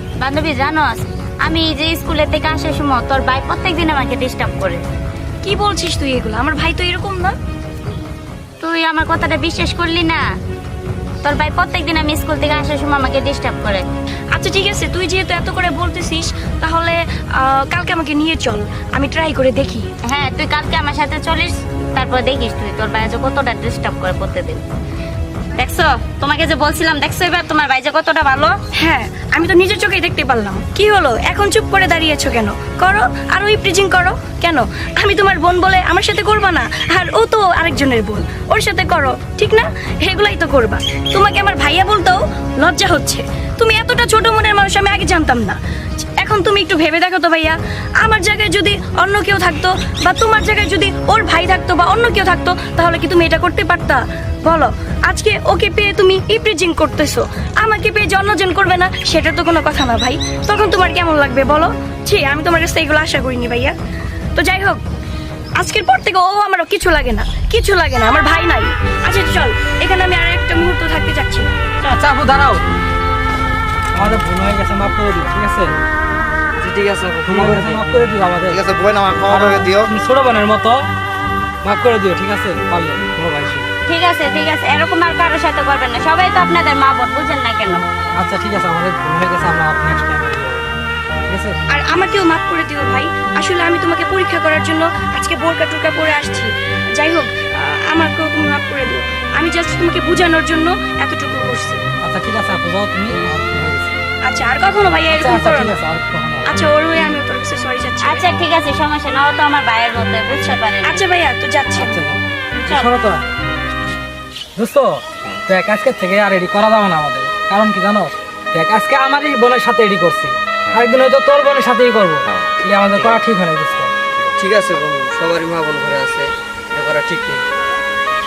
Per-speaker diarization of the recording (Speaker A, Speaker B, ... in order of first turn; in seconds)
Speaker A: 0.2-4.8, 8.6-10.2, 11.2-13.9, 20.1-24.6, 25.6-28.6, 83.9-87.8, 108.0-111.0
Speaker B: 5.4-7.3, 14.3-19.9, 28.8-45.6, 46.2-63.7, 64.4-64.8, 65.6-71.5, 91.7-101.8, 104.3-105.8, 106.5-108.3, 110.3-112.0
Speaker C: 71.8-72.6, 74.0-75.8, 77.2-78.6, 79.3-80.9, 81.6-83.7, 88.2-90.7, 91.3-91.6, 102.0-104.0, 105.1-106.6, 111.8-113.2, 114.6-123.9
Speaker D: 76.6-77.8, 124.4-127.4
Speaker E: 78.5-79.9, 122.3-123.2